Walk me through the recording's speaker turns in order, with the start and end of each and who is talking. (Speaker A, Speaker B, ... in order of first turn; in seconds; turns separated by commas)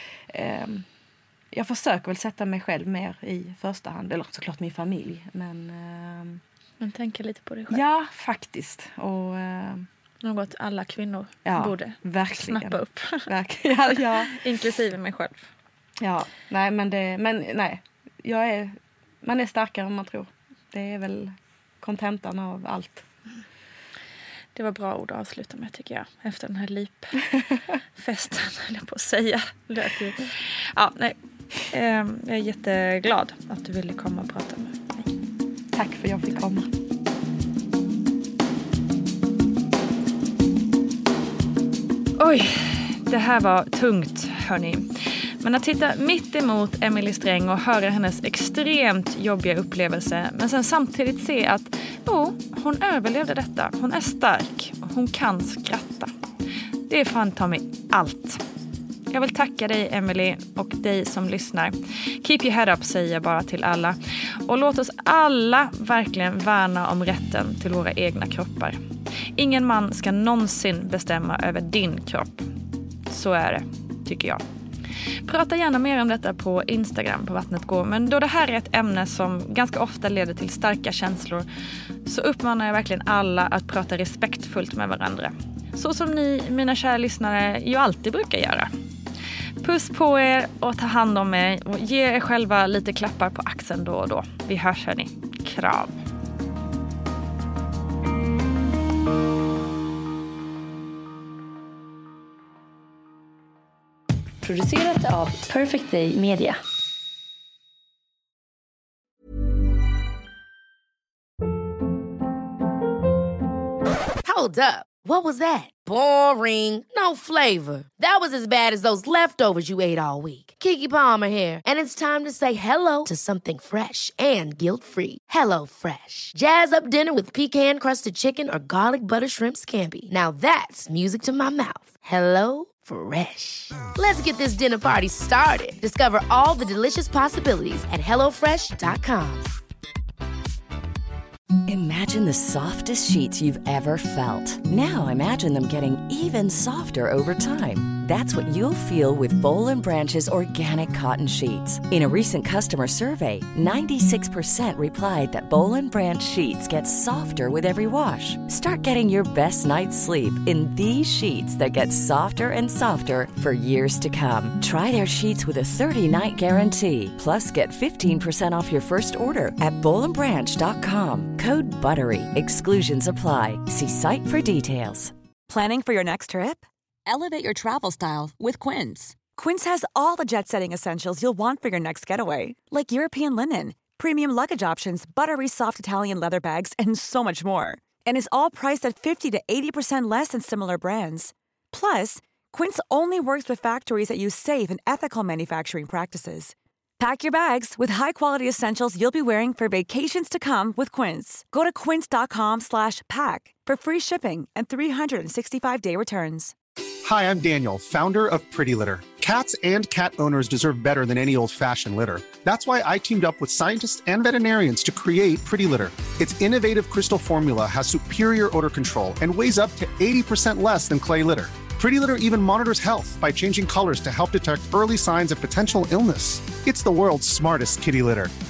Speaker A: 0.3-0.8, Speaker A: 1.5-6.4, Speaker B: 6.8-7.8, Speaker A: 7.7-9.9, Speaker B: 10.2-13.3, Speaker A: 11.4-14.4, Speaker B: 14.3-15.5, Speaker A: 16.0-23.0, Speaker B: 24.5-27.2, Speaker B: 27.9-35.1, Speaker A: 35.7-36.7, Speaker B: 42.2-44.9, Speaker B: 45.4-56.1, Speaker B: 56.9-58.4, Speaker B: 59.1-68.8, Speaker B: 69.3-72.5, Speaker B: 73.1-74.4, Speaker B: 75.2-81.5, Speaker B: 82.0-88.7, Speaker B: 89.6-96.0, Speaker C: 104.4-106.6, Speaker D: 114.2-139.5, Speaker E: 141.7-175.1, Speaker F: 175.5-206.5, Speaker G: 207.0-228.3